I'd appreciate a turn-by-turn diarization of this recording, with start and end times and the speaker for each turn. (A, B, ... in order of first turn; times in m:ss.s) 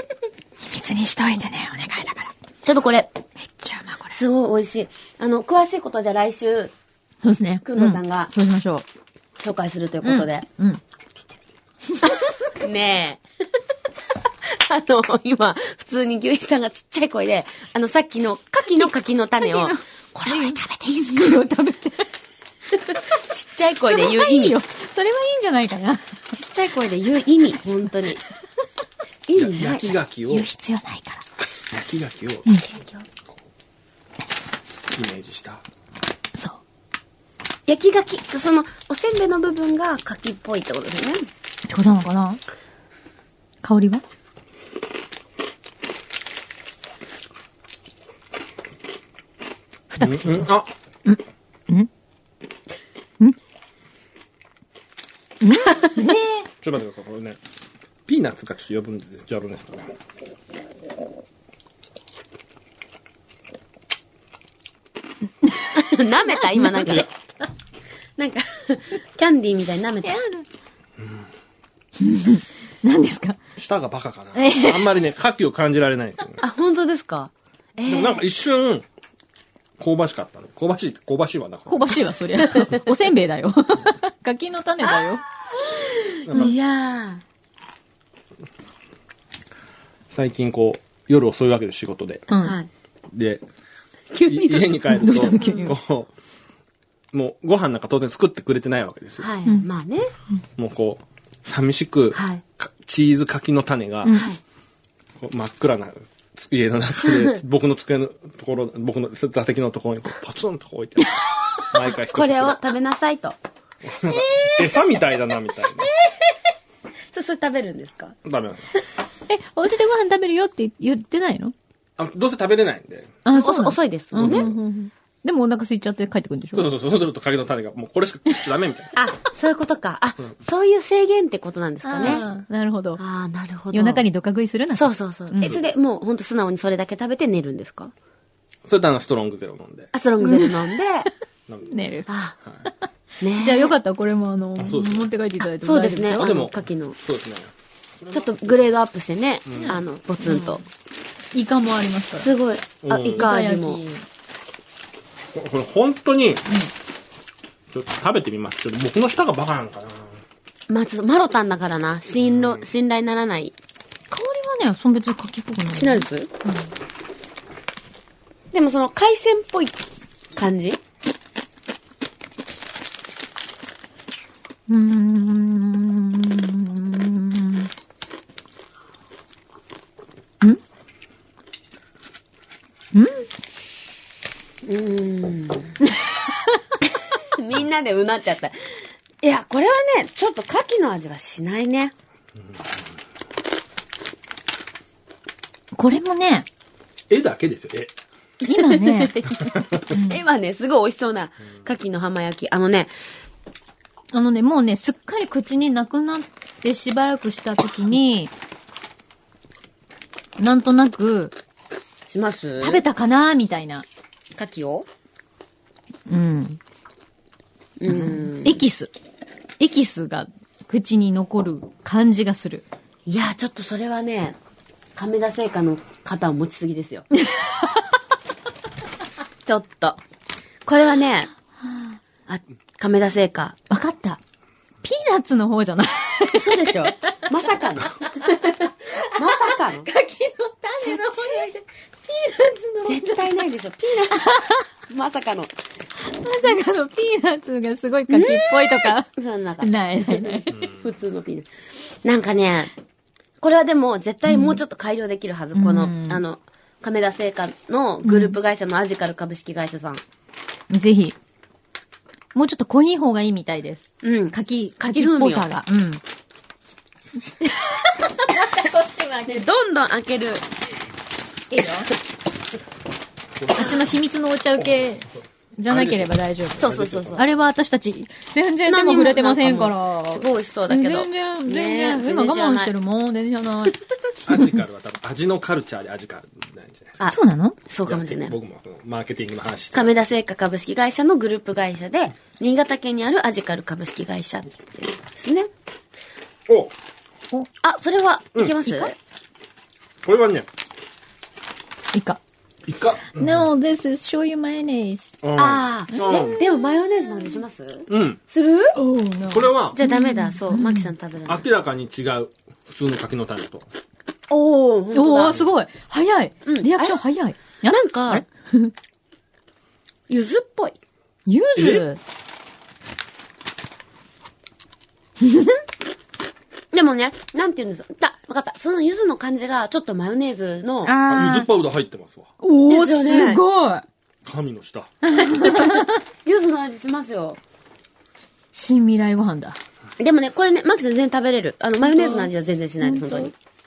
0:00.6-0:02.3 A
0:02.6-0:03.2 B
0:03.4-0:04.2 A
0:04.1-0:06.7 B
0:07.2-0:08.8 A
0:07.6-0:08.3 B
0:09.4-0:10.4 B
0:10.0-0:10.8 A
0:12.0-0:12.2 A
0:12.6-0:13.2 B
0:14.4-0:20.6 B
0:19.4-0:22.1 A
0:22.9-0:24.6 B
0:23.9-0:26.2 A
0:26.3-0:28.2 B
0:29.3-0:30.0 B
0:29.4-0:30.5 C
0:30.3-0:31.2 A
0:31.6-0:32.5 C
0:32.6-0:33.1 B
0:34.9-0:35.6 C
0:36.4-0:36.6 A
0:37.7-0:41.3 B
0:41.7-0:42.4 A
0:43.6-0:44.0 A
0:49.9-0:50.5 A
0:50.0-0:50.7 C
0:51.0-0:51.9 A
0:55.4-0:56.5 A
0:56.6-0:57.4 C
0:58.1-0:59.9 C
1:05.4-1:05.7 A
1:05.7-1:07.1 B
1:06.5-1:07.1 A
1:08.2-1:10.2 B
1:10.0-1:10.5 A
1:11.0-1:11.3 C
1:12.0-1:13.4 A
1:13.6-1:16.4 C
1:14.4-1:15.0 A
1:16.4-1:18.2 B
1:17.9-1:18.9 C
1:19.8-1:21.9 C
1:21.7-1:25.2 A
1:25.7-1:27.2 B
1:26.2-1:26.5 C
1:30.1-1:32.3 C
1:32.3-1:32.6 A
1:32.4-1:32.7 B
1:33.1-1:33.4 C
1:34.1-1:35.7 B
1:34.3-1:36.1 C
1:34.9-1:35.8 A
1:37.1-1:39.3 C
1:39.2-1:40.1 B
1:40.6-1:44.3 C
1:42.1-1:42.4 B
1:44.1-1:44.4 B
1:45.2-1:52.7 C
1:52.0-1:53.4 B
1:53.8-1:55.9 C
1:54.1-1:55.0 A
1:57.1-1:58.2 B
1:58.2-1:58.7 C
1:59.3-2:01.5 A
2:02.0-2:03.2 C
2:03.2-2:06.7 A
2:03.3-2:04.5 B
2:04.2-2:04.6 C
2:06.5-2:09.0 C
2:09.0-2:12.3 B
2:11.8-2:13.0 A
2:12.0-2:12.3 C
2:13.0-2:14.0 B
2:13.7-2:15.6 A
2:14.7-2:17.9 B
2:18.6-2:19.9 C
2:19.9-2:21.1 B
2:20.2-2:20.5 A
2:21.5-2:21.8 C
2:21.7-2:22.1 A
2:22.1-2:22.4 B
2:23.2-2:23.8 B
2:23.4-2:26.5 A
2:24.6-2:25.1 C
2:25.6-2:27.0 B
2:26.2-2:28.6 C
2:28.1-2:30.6 B
2:29.5-2:29.8 C
2:29.6-2:30.6 A
2:31.3-2:32.3 A
2:32.2-2:33.8 B
2:32.8-2:33.3 C
2:33.0-2:34.0 A
2:35.3-2:36.4 C
2:37.7-2:40.2 C
2:40.7-2:43.6 B
2:42.2-2:42.7 C
2:44.1-2:46.7 A
2:45.7-2:46.3 B
2:48.5-2:49.8 B
2:50.4-2:50.8 B
2:54.7-2:57.7 A
3:02.9-3:03.3 A
3:04.6-3:05.8 B
3:05.9-3:06.6 A
3:07.2-3:11.9 B
3:15.8-3:16.5 A
3:17.1-3:18.0 C
3:18.4-3:19.3 A
3:18.5-3:23.0 B
3:19.9-3:20.2 A
3:24.1-3:28.3 A
3:30.4-3:31.4 A
3:32.1-3:32.8 B
3:32.6-3:33.9 A
3:34.3-3:34.9 B
3:36.1-3:36.6 A
3:37.8-3:38.6 B
3:37.9-3:38.9 A
3:39.6-3:42.7 A
3:43.1-3:44.4 B
3:45.0-3:47.1 B
3:47.2-3:47.7 A
3:49.4-3:50.0 B
3:50.7-3:51.3 B
3:52.3-3:53.6 B
3:53.7-3:54.2 A
3:54.8-3:56.9 A
3:56.3-3:59.9 B
3:58.0-4:03.3 A
4:00.8-4:01.5 B
4:02.8-4:04.3 B
4:04.1-4:04.6 A
4:04.9-4:05.5 B
4:06.0-4:09.1 A
4:08.1-4:11.5 B
4:09.6-4:10.5 A
4:10.5-4:10.8 C
4:12.0-4:12.7 B
4:13.4-4:20.0 B
4:14.3-4:14.6 A
4:15.6-4:16.2 A
4:18.0-4:18.4 A
4:20.7-4:21.2 A
4:22.3-4:26.0 A
4:24.0-4:25.5 B
4:27.4-4:29.4 A
4:29.2-4:30.5 B
4:31.5-4:31.9 A
4:33.4-4:33.9 C
4:33.5-4:43.8 A
4:35.7-4:37.3 C
4:36.6-4:37.2 B
4:38.7-4:42.7 B
4:44.2-4:47.0 C
4:47.0-4:48.4 B
4:47.1-4:47.6 A
4:47.8-4:49.9 C
4:49.7-4:55.5 B
4:56.5-4:56.7 C
4:57.6-4:59.0 B
4:58.4-4:58.6 C
5:00.0-5:00.5 C
5:01.9-5:02.2 A
5:02.7-5:03.5 C
5:03.1-5:05.2 A
5:05.2-5:06.4 C
5:05.4-5:08.8 B
5:05.9-5:06.6 A
5:07.9-5:08.2 C
5:08.7-5:10.9 A
5:09.3-5:09.8 C
5:09.7-5:11.5 B
5:11.3-5:13.7 C
5:14.3-5:15.4 B
5:14.9-5:18.7 A
5:15.2-5:15.5 C
5:16.4-5:17.0 B
5:17.6-5:18.2 B
5:20.1-5:20.8 B
5:21.3-5:22.0 A
5:21.6-5:21.9 C
5:25.2-5:25.6 A
5:26.7-5:30.9 B
5:30.8-5:31.5 A
5:31.1-5:32.3 C
5:32.4-5:33.9 A
5:32.7-5:33.4 B
5:34.2-5:35.3 C
5:35.1-5:36.0 A
5:35.4-5:37.4 B
5:38.5-5:39.6 A
5:40.0-5:43.3 B
5:41.8-5:42.3 A
5:42.8-5:43.3 A